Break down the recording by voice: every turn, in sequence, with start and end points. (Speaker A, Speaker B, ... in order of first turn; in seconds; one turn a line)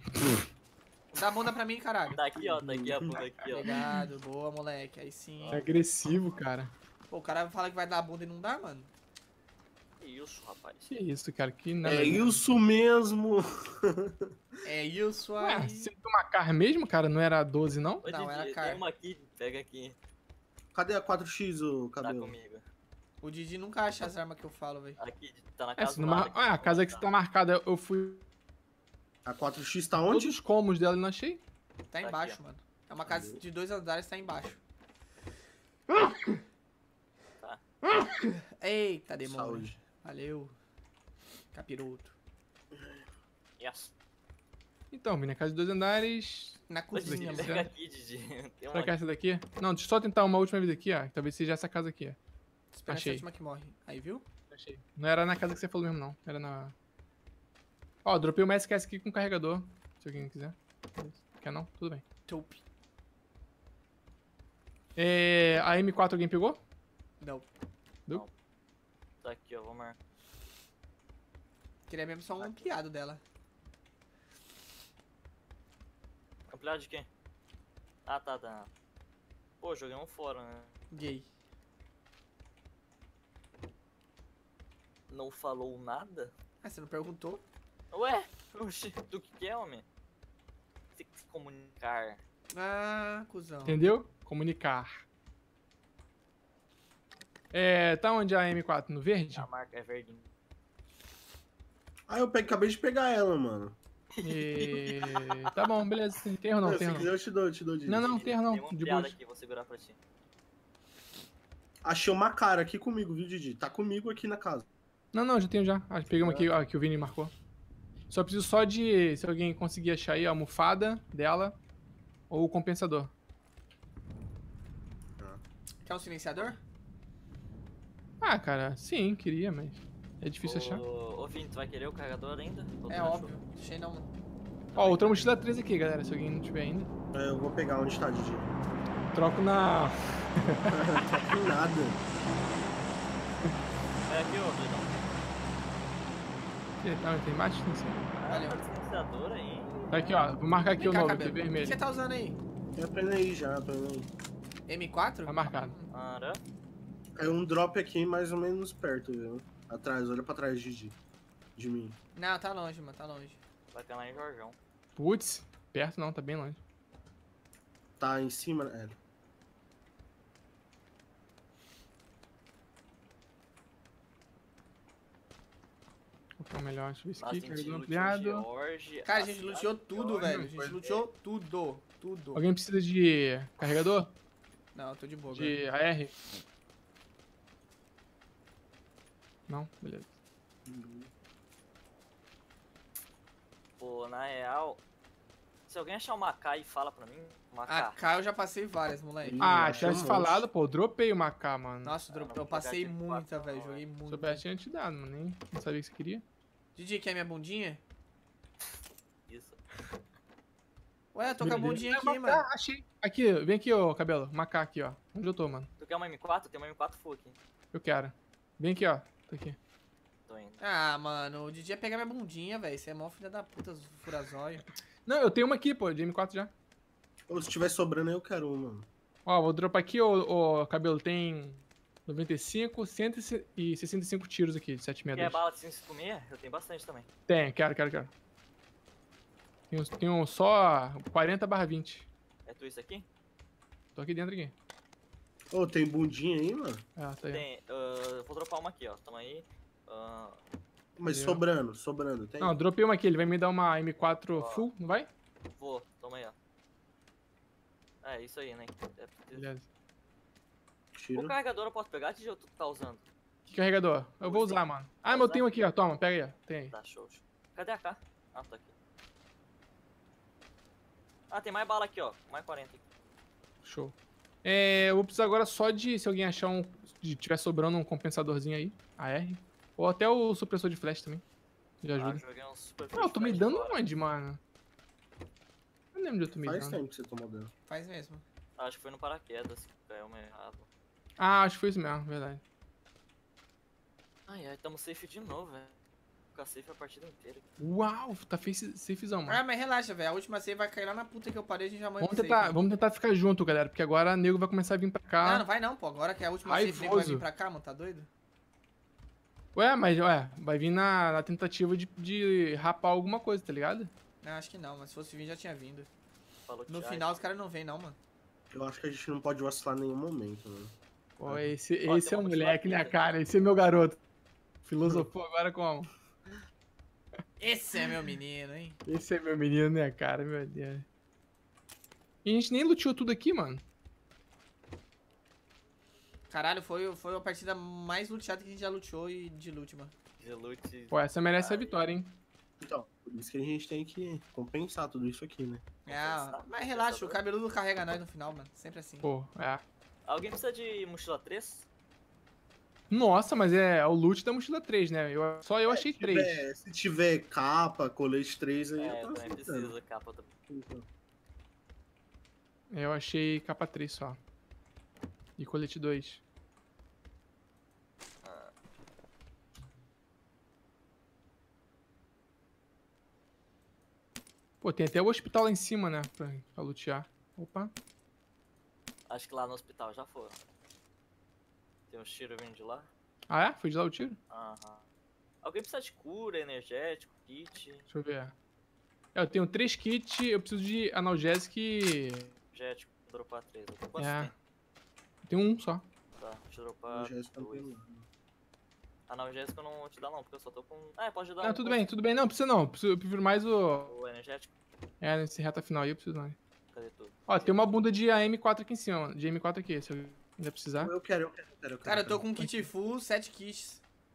Speaker A: 1.1-2.2
Speaker B: 2.1-3.7
Speaker C: 2.4-3.2
Speaker A: 3.5-5.7
Speaker D: 3.6-4.0
Speaker B: 5.4-5.7
Speaker D: 5.5-6.7
Speaker A: 7.1-8.9
Speaker B: 10.0-10.9
Speaker D: 10.9-12.4
Speaker C: 11.8-14.3
Speaker A: 14.6-15.9
Speaker D: 15.4-18.1
Speaker B: 18.0-20.0
Speaker A: 18.1-18.8
Speaker C: 20.7-22.4
Speaker B: 22.0-22.6
Speaker A: 23.2-25.0
Speaker B: 25.0-27.1
Speaker D: 25.8-28.2
Speaker C: 29.2-30.4
Speaker D: 30.1-31.4
Speaker A: 31.9-34.6
Speaker B: 32.0-32.4
Speaker C: 33.1-33.4
Speaker A: 35.9-36.4
Speaker A: 37.8-40.5
Speaker C: 39.2-39.8
Speaker A: 41.5-42.1
Speaker C: 42.8-43.0
Speaker B: 43.6-43.9
Speaker D: 44.9-47.7
Speaker A: 46.7-47.6
Speaker B: 46.9-49.0
Speaker D: 48.7-52.2
Speaker A: 52.7-54.3
Speaker D: 52.9-53.2
Speaker D: 54.5-56.7
Speaker D: 58.0-62.0
Speaker A: 62.3-62.6
Speaker D: 65.0-66.6
Speaker A: 67.2-67.5
Speaker B: 69.2-70.0
Speaker A: 71.9-73.2
Speaker B: 76.5-77.1
Speaker B: 78.1-78.7
Speaker B: 79.6-80.7
Speaker A: 80.9-81.3
Speaker B: 85.1-86.3
Speaker A: 86.6-87.4
Speaker B: 87.9-89.8
Speaker B: 90.9-92.2
Speaker A: 92.5-93.8
Speaker D: 93.7-94.9
Speaker D: 97.5-99.5
Speaker B: 99.3-100.3
Speaker C: 102.1-103.8
Speaker B: 104.2-105.5
Speaker D: 104.2-107.1
Speaker C: 106.6-108.3
Speaker D: 107.9-109.2
Speaker B: 108.1-110.0
Speaker C: 111.8-114.7
Speaker D: 115.1-117.3
Speaker C: 116.2-116.5
Speaker D: 118.1-121.6
Speaker D: 122.3-123.1
Speaker A: 125.8-126.6
Speaker D: 128.2-130.8
Speaker B: 130.4-133.3
Speaker A: 132.9-134.1
Speaker B: 134.7-135.2
Speaker D: 134.8-136.9
Speaker C: 137.1-138.5
Speaker D: 139.1-141.3
Speaker C: 140.7-142.0
Speaker B: 144.1-145.0
Speaker D: 146.8-148.2
Speaker B: 148.2-150.2
Speaker A: 148.3-148.6
Speaker D: 149.9-151.8
Speaker A: 150.8-152.4
Speaker C: 152.7-154.1
Speaker A: 154.7-155.9
Speaker D: 155.3-155.8
Speaker B: 155.9-156.4
Speaker C: 157.2-161.0
Speaker C: 161.6-162.0
Speaker A: 162.2-163.4
Speaker B: 163.7-164.6
Speaker D: 165.0-166.6
Speaker C: 168.0-169.0
Speaker D: 176.4-178.4
Speaker B: 177.2-180.0
Speaker A: 179.1-182.4
Speaker D: 180.2-180.8
Speaker C: 180.3-181.1
Speaker D: 182.3-184.1
Speaker A: 184.8-185.6
Speaker D: 185.3-186.2
Speaker D: 189.5-190.1
Speaker C: 190.7-191.1
Speaker B: 193.8-194.8
Speaker B: 195.7-198.0
Speaker A: 197.7-200.0
Speaker C: 199.2-200.5
Speaker D: 199.4-202.0
Speaker A: 201.8-204.4
Speaker B: 202.1-203.8
Speaker D: 204.1-206.2
Speaker A: 206.8-207.8
Speaker B: 209.3-209.6
Speaker A: 211.1-212.4
Speaker C: 211.4-211.8
Speaker D: 211.4-215.7
Speaker B: 215.8-217.4
Speaker D: 217.7-219.6
Speaker B: 220.3-220.6
Speaker A: 220.6-224.7
Speaker D: 225.1-226.5
Speaker C: 227.3-228.9
Speaker D: 229.3-235.4
Speaker B: 235.1-237.1
Speaker D: 237.3-238.1
Speaker D: 239.7-242.1
Speaker B: 242.5-243.1
Speaker D: 243.9-244.5
Speaker C: 245.5-246.8
Speaker D: 247.0-247.4
Speaker B: 247.3-250.4
Speaker C: 251.0-252.6
Speaker D: 251.0-251.4
Speaker D: 252.4-255.1
Speaker B: 254.3-254.7
Speaker B: 255.6-256.4
Speaker B: 258.0-259.5
Speaker D: 259.4-259.7
Speaker C: 260.9-261.3
Speaker B: 261.1-263.0
Speaker D: 263.5-266.7
Speaker B: 264.2-265.6
Speaker B: 266.7-268.7
Speaker B: 271.3-272.8
Speaker D: 273.6-281.2
Speaker D: 281.8-282.2
Speaker B: 282.0-283.8
Speaker D: 283.0-284.4
Speaker D: 285.9-286.8
Speaker C: 286.4-287.5
Speaker A: 287.7-288.2
Speaker B: 288.6-290.7
Speaker D: 291.2-292.4
Speaker B: 294.3-295.7
Speaker B: 296.3-297.4
Speaker D: 297.6-299.4
Speaker A: 299.3-302.6
Speaker D: 302.0-305.5
Speaker A: 305.2-308.1
Speaker D: 306.5-307.2
Speaker D: 309.6-313.9
Speaker A: 314.2-315.9
Speaker B: 316.5-317.2
Speaker A: 316.7-318.0
Speaker C: 318.5-320.7
Speaker D: 321.2-324.0
Speaker C: 321.2-321.5
Speaker B: 321.9-323.2
Speaker D: 324.7-325.9
Speaker A: 327.4-328.8
Speaker D: 328.9-330.9
Speaker D: 332.2-333.6
Speaker A: 336.3-339.9
Speaker B: 340.2-341.8
Speaker D: 340.9-342.2
Speaker C: 342.6-345.6
Speaker A: 345.9-349.1
Speaker B: 345.9-347.2
Speaker D: 349.0-349.6
Speaker B: 350.1-351.7
Speaker D: 352.9-356.4
Speaker C: 355.7-359.7
Speaker B: 358.8-360.3
Speaker C: 360.5-360.9
Speaker D: 362.7-364.2
Speaker D: 365.4-366.2
Speaker B: 368.2-368.5
Speaker D: 374.6-377.7
Speaker B: 379.1-380.4
Speaker B: 381.9-382.9
Speaker D: 383.3-384.2
Speaker B: 384.3-384.8
Speaker B: 385.4-387.9
Speaker D: 387.9-388.3
Speaker D: 389.1-392.3
Speaker B: 392.5-394.3
Speaker D: 394.0-394.3
Speaker D: 395.2-395.9
Speaker B: 396.2-397.7
Speaker C: 396.9-398.1
Speaker B: 399.1-401.9
Speaker D: 401.4-403.9
Speaker B: 403.9-404.5
Speaker D: 405.0-406.4
Speaker B: 406.7-407.6
Speaker D: 407.3-410.9
Speaker C: 410.8-412.2
Speaker A: 411.9-413.8
Speaker D: 412.4-412.7